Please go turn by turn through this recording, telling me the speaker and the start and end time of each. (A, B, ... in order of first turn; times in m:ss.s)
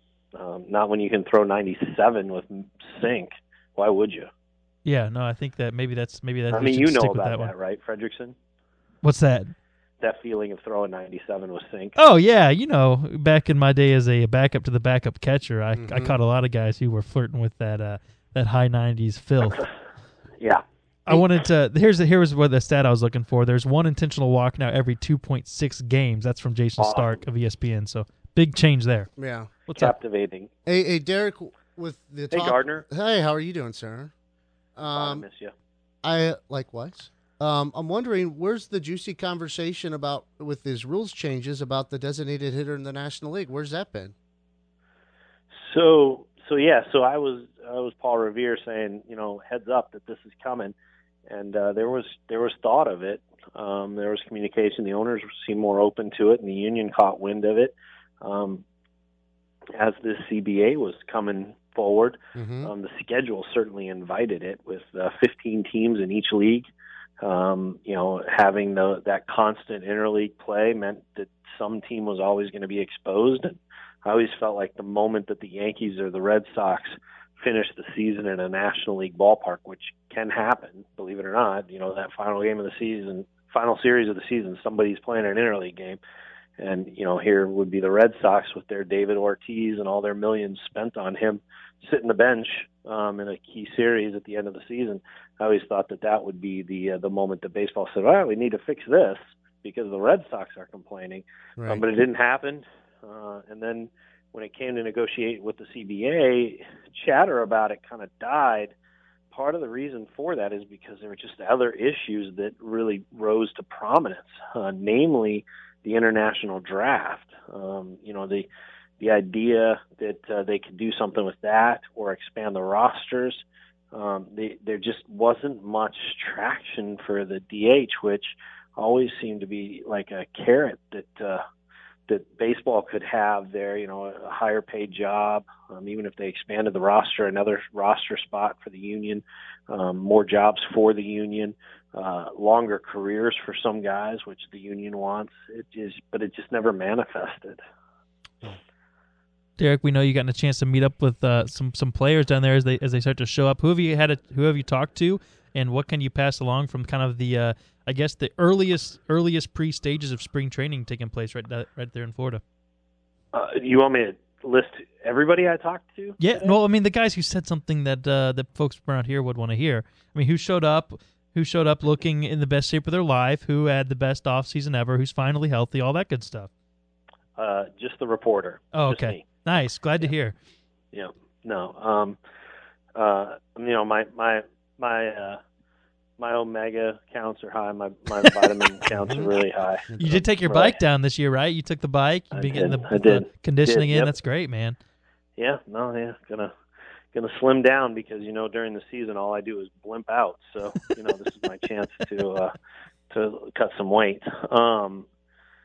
0:00.4-0:04.3 A
0:04.8-0:07.5 B
0:06.5-0:08.4 A
0:09.0-0:09.5 B
0:10.0-0:12.0 A
0:12.0-0:19.7 B
0:15.8-0:16.2 C
0:21.1-0:29.1 B
0:26.8-0:27.2 A
0:29.2-0:29.5 C
0:29.7-0:29.9 B
0:29.7-0:30.5 A
0:30.7-0:34.1 C
0:32.3-0:32.8 A
0:34.8-0:35.2 C
0:34.9-0:35.5 A
0:36.0-0:44.1 C
0:45.6-0:50.7 A
0:51.3-0:58.6 A
0:59.8-1:06.7 A
1:02.4-1:02.7 C
1:07.2-1:26.0 A
1:26.6-1:48.7 A
1:41.6-1:41.8 C
1:49.3-1:58.5 A
1:59.0-2:11.4 A
2:12.1-2:27.6 A
2:29.6-2:42.4 B
2:43.3-2:46.6 A
2:46.2-2:56.5 B
2:57.4-2:59.3 A
2:58.7-3:00.4 B
3:00.9-3:02.2 A
3:03.0-3:05.4 A
3:06.2-3:09.9 A
3:08.9-3:09.3 C
3:09.8-3:10.3 C
3:10.0-3:14.8 B
3:10.4-3:10.8 A
3:12.3-3:14.1 A
3:15.4-3:16.5 A
3:17.2-3:22.5 A
3:23.1-3:25.1 A